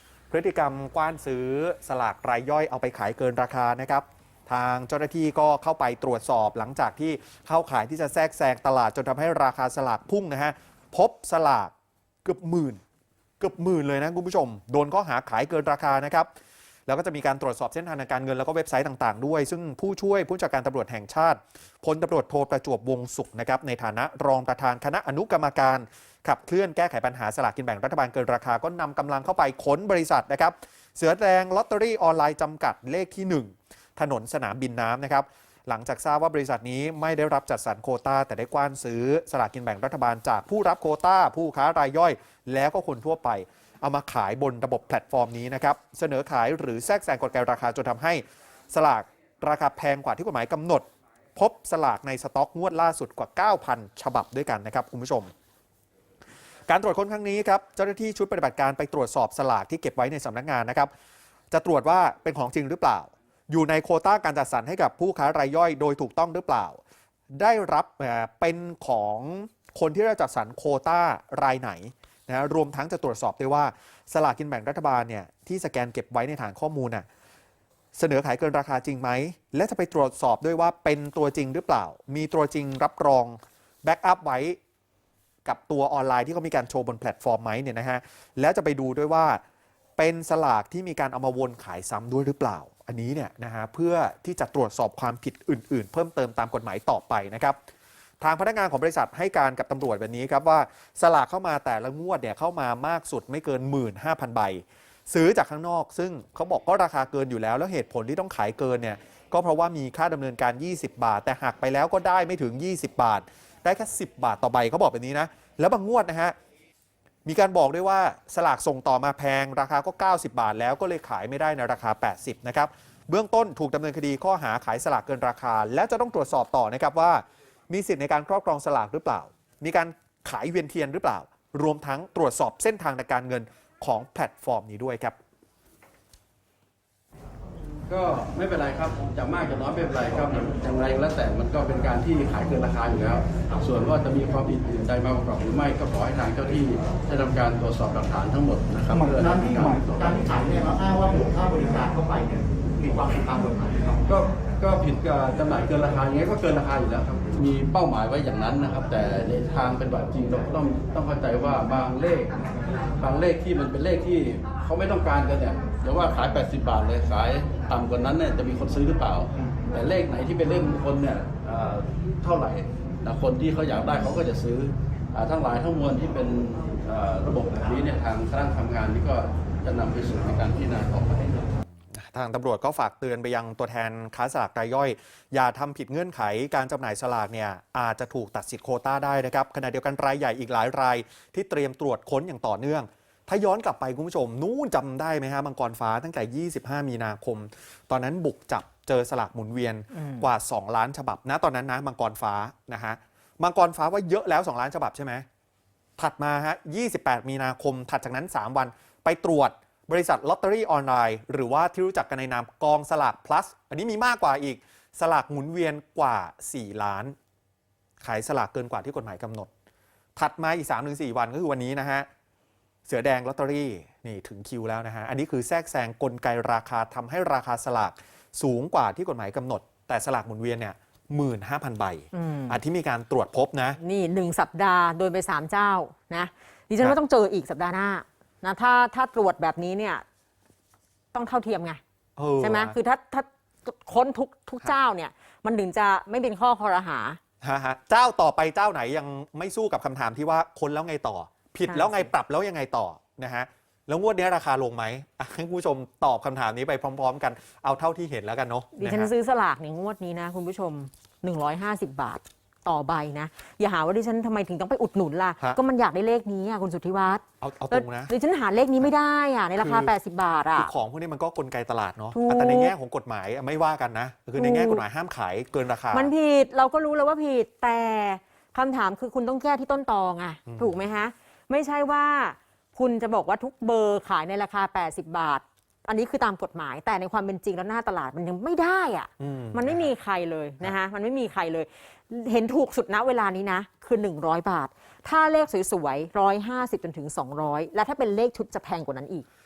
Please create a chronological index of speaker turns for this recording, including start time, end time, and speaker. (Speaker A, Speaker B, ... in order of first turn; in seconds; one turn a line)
Speaker A: 0.3-11.7
Speaker A: 12.2-12.8
Speaker A: 13.4-16.3
Speaker A: 16.9-55.3
Speaker A: 56.7-60.9
Speaker A: 61.5-66.8
Speaker A: 67.4-77.1
Speaker A: 78.0-84.6
Speaker A: 85.5-89.4
Speaker A: 90.0-97.6
Speaker A: 98.2-116.4
Speaker A: 117.2-135.2
Speaker B: 137.9-150.2
Speaker C: 149.2-154.0
Speaker B: 154.1-162.3
Speaker B: 163.0-181.5
Speaker A: 181.9-205.2
Speaker D: 200.0-200.3
Speaker A: 206.0-217.2
Speaker A: 218.0-219.5
Speaker A: 220.2-222.1
Speaker A: 222.9-233.8
Speaker D: 232.1-232.6
Speaker D: 233.8-240.0
Speaker D: 241.1-241.8
Speaker A: 242.2-242.8
Speaker D: 242.4-247.2
Speaker A: 247.4-259.1
Speaker D: 251.7-252.1
Speaker D: 258.8-270.7
Speaker A: 267.4-268.1
Speaker A: 269.6-269.9
Speaker A: 270.6-276.1
Speaker D: 272.1-272.7
Speaker D: 274.4-274.8
Speaker D: 275.9-299.3
Speaker A: 280.5-280.8
Speaker A: 289.2-289.9